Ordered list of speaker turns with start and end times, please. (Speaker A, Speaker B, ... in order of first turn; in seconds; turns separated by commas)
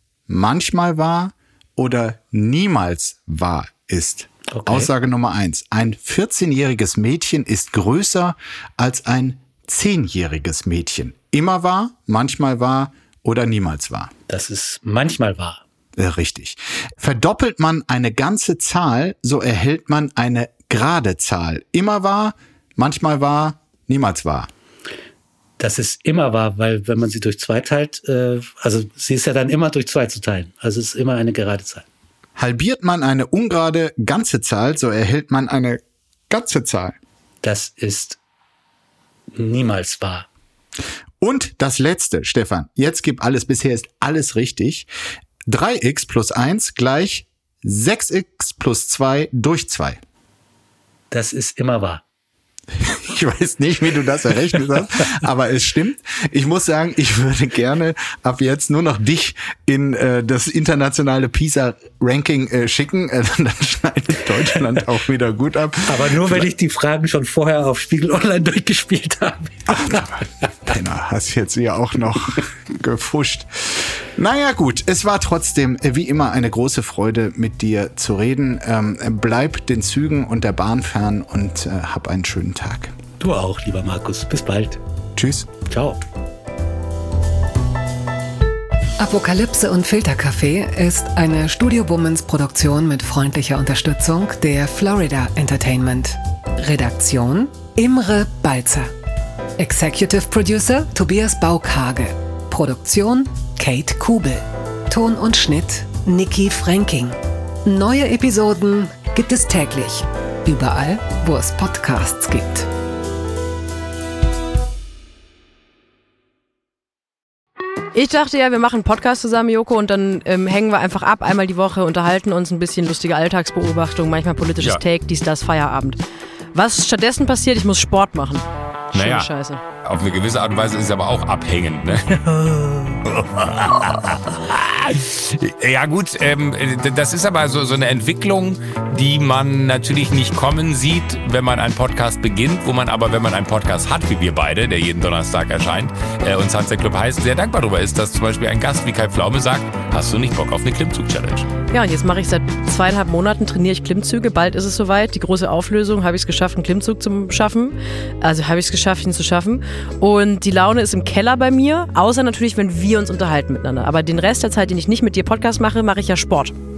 Speaker A: 0.3-14.1, Speaker B: 4.5-4.9, Speaker B: 14.3-15.6, Speaker A: 16.0-24.5, Speaker B: 25.6-31.9, Speaker A: 32.4-37.0, Speaker B: 37.4-38.2, Speaker B: 39.3-40.3, Speaker A: 41.2-44.9, Speaker A: 45.5-50.0, Speaker B: 51.1-52.0, Speaker A: 52.8-66.5, Speaker B: 65.9-70.0, Speaker A: 69.7-82.9, Speaker B: 83.2-84.8, Speaker A: 85.2-85.5, Speaker B: 85.7-86.0, Speaker C: 89.0-98.9, Speaker C: 99.6-112.7, Speaker D: 117.9-126.0, Speaker D: 126.5-129.6, Speaker E: 128.9-129.3, Speaker E: 129.8-151.5, Speaker D: 151.7-166.6